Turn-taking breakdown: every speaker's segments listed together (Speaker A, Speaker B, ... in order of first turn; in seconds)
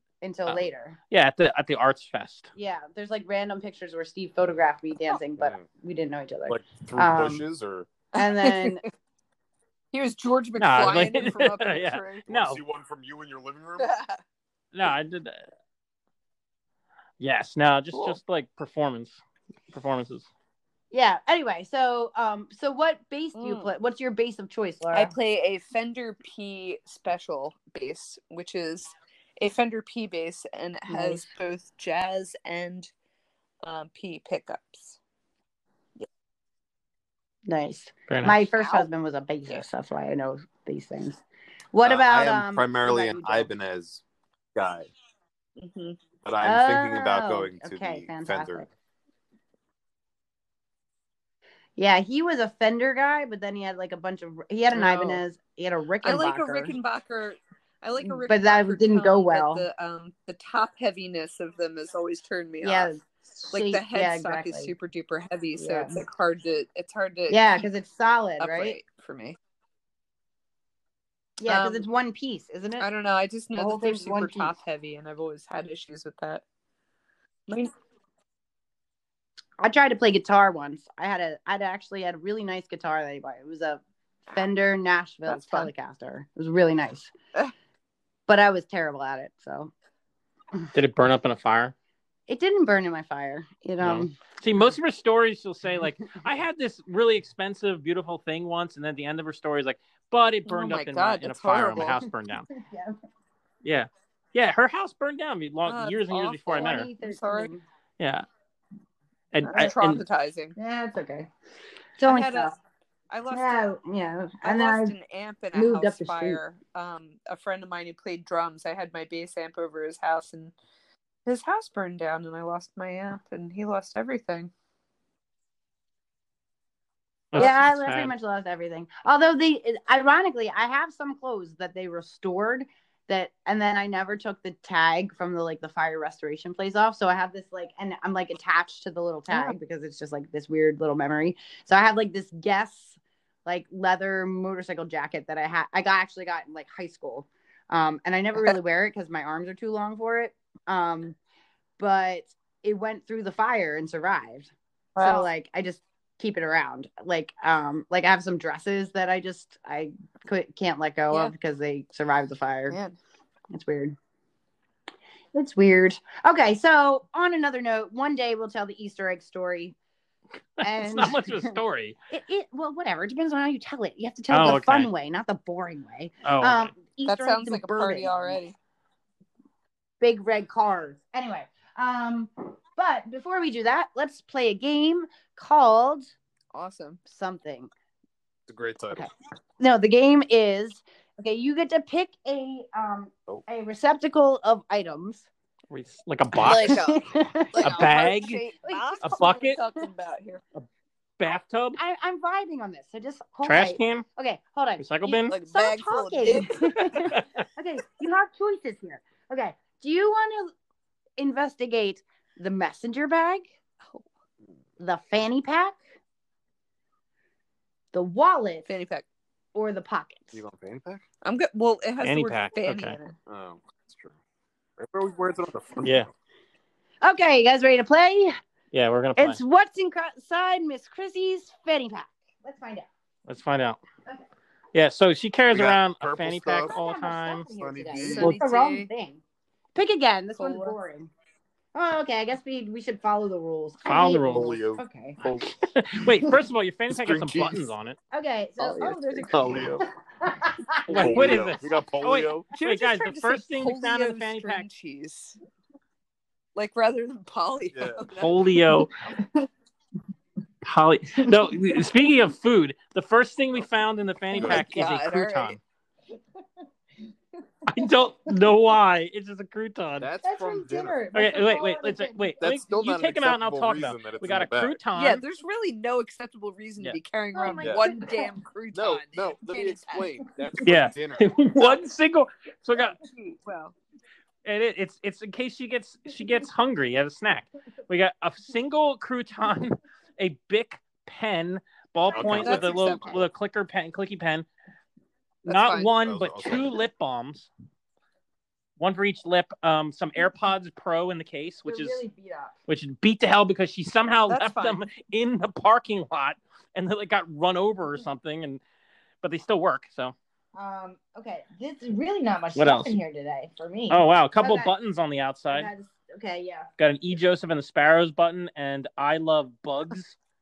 Speaker A: 0.2-1.0, 2.6-7.4, 8.2-8.8, 20.9-25.1, 30.9-31.3, 37.5-41.2, 41.7-43.5, 46.4-48.7, 51.8-56.8, 58.0-59.7, 62.6-64.7, 65.6-66.0, 67.3-68.8, 71.4-72.9, 73.6-74.5, 79.6-87.1, 88.3-89.7, 92.3-94.2, 102.5-103.0, 106.5-107.6, 110.6-111.3, 112.0-112.6, 113.3-115.0, 115.5-116.4, 127.3-151.2, 151.8-162.8, 163.5-164.0, 165.3-169.8, 170.6-171.6, 172.1-178.4, 180.0-186.1, 187.1-187.7, 188.9-195.3, 196.4-197.9, 198.6-199.8, 201.8-210.5, 211.2-213.5, 214.8-215.8, 217.9-218.7, 219.6-220.4, 227.0-228.3, 229.2-232.9, 236.7-239.2, 239.8-241.1, 241.8-245.2, 248.1-251.4, 267.7-268.3, 270.2-272.4, 277.4-278.3, 292.5-293.2, 301.6-302.5, 310.6-314.7, 315.5-316.7
Speaker B: 1.1-2.5, 10.6-12.6, 14.7-15.4, 17.2-19.2, 19.7-20.3, 38.1-38.4, 90.7-91.7, 93.8-102.5, 103.6-106.9, 108.0-108.2, 109.3-110.0, 127.3-128.1, 170.6-171.9, 174.3-174.9, 176.2-176.7, 195.7-196.8, 197.6-198.4, 199.0-199.6, 201.2-201.8, 203.4-204.1, 204.8-205.4, 206.9-207.4, 222.0-223.0, 225.8-226.1, 228.7-229.4, 233.3-233.8, 234.7-237.5, 243.9-244.5, 245.5-248.0, 250.9-254.7, 258.2-258.9, 260.6-265.6, 267.7-270.1, 271.1-275.2, 280.6-283.0, 284.4-294.5, 295.4-297.5, 298.8-302.0, 302.7-308.6, 309.2-310.1, 312.6-313.0, 313.9-315.7, 316.8-320.2
Speaker C: 5.4-5.7, 6.5-7.9, 12.3-13.9, 41.8-44.0, 44.5-44.9, 46.2-48.7, 188.5-189.1, 220.3-221.0, 223.3-224.1, 224.8-226.1, 235.5-236.8, 237.5-238.4, 244.3-245.6, 246.9-247.7, 248.6-249.8, 250.9-252.5, 257.7-258.1, 264.4-264.8, 270.0-271.0, 272.4-274.8, 278.7-281.7, 292.1-293.2, 296.0-296.9
Speaker D: 8.2-8.9, 9.9-12.3, 13.8-14.2, 17.9-18.2, 23.4-23.7, 24.9-32.9, 33.6-35.0, 38.6-38.9, 45.6-46.0, 54.7-55.2, 56.0-63.0, 63.5-67.7, 68.4-69.4, 71.5-71.9, 72.8-76.4, 85.3-85.7, 100.5-102.0, 105.7-107.5, 109.4-110.6, 112.0-112.5, 113.1-113.6, 114.4-120.5, 121.3-124.5, 139.3-139.6, 154.9-155.3, 162.7-163.0, 177.1-178.6, 186.5-187.0, 196.4-200.4, 205.3-206.9, 218.7-219.1, 221.2-223.2, 238.0-238.9, 240.4-240.8, 252.5-255.4, 256.6-258.5, 264.4-265.6, 274.9-280.1, 283.0-283.8, 292.2-293.2, 295.5-295.9, 304.3-304.8